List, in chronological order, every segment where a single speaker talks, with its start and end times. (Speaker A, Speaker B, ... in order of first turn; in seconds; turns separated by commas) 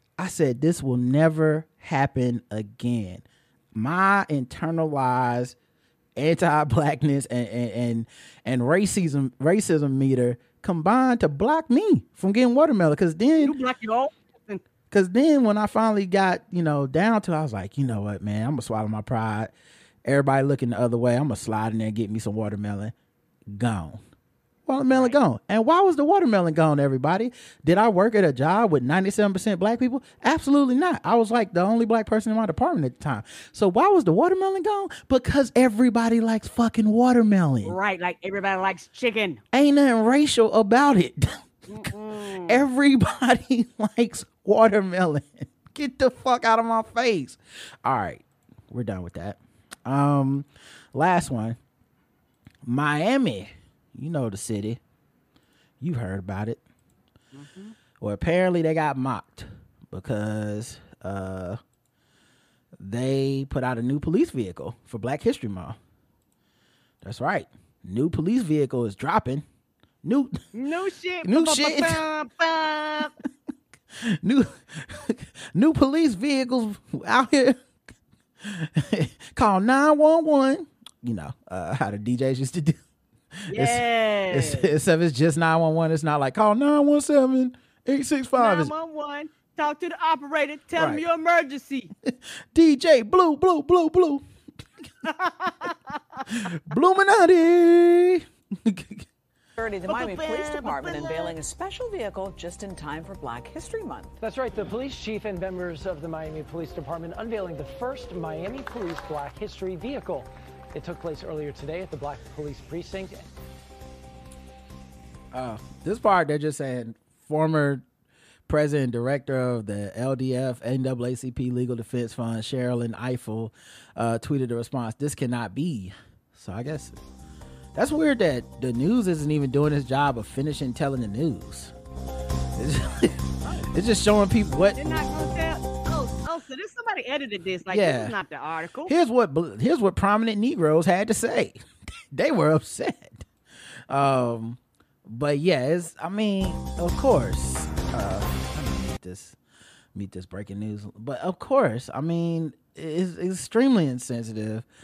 Speaker A: 0.2-3.2, Speaker A: 3.7-5.6, Speaker A: 6.2-13.6, Speaker B: 13.4-14.6, Speaker A: 14.9-19.5, Speaker A: 20.1-22.9, Speaker A: 23.5-24.0, Speaker A: 24.7-37.8, Speaker B: 24.9-25.2, Speaker B: 37.6-39.4, Speaker A: 39.5-41.4, Speaker B: 41.7-42.6, Speaker A: 42.5-51.6, Speaker A: 52.6-54.8, Speaker A: 55.8-56.6, Speaker B: 57.3-57.8, Speaker A: 58.0-61.6, Speaker A: 62.8-65.8, Speaker A: 67.0-69.5, Speaker A: 70.0-70.4, Speaker B: 70.5-73.2, Speaker A: 71.2-72.0, Speaker A: 74.0-77.6, Speaker A: 78.4-82.8, Speaker A: 83.5-88.7, Speaker B: 83.5-84.7, Speaker B: 88.4-91.9, Speaker A: 90.8-91.0, Speaker A: 92.0-94.2, Speaker B: 95.0-96.3, Speaker A: 96.3-99.1, Speaker C: 99.6-104.2, Speaker B: 99.8-101.3, Speaker D: 104.2-113.2, Speaker A: 115.3-117.8, Speaker A: 118.5-127.0, Speaker A: 127.7-131.7, Speaker A: 132.6-133.2, Speaker A: 133.7-134.9, Speaker B: 134.8-138.9, Speaker A: 137.7-138.2, Speaker A: 138.9-141.6, Speaker A: 142.1-143.3, Speaker A: 143.9-149.4, Speaker A: 149.9-154.7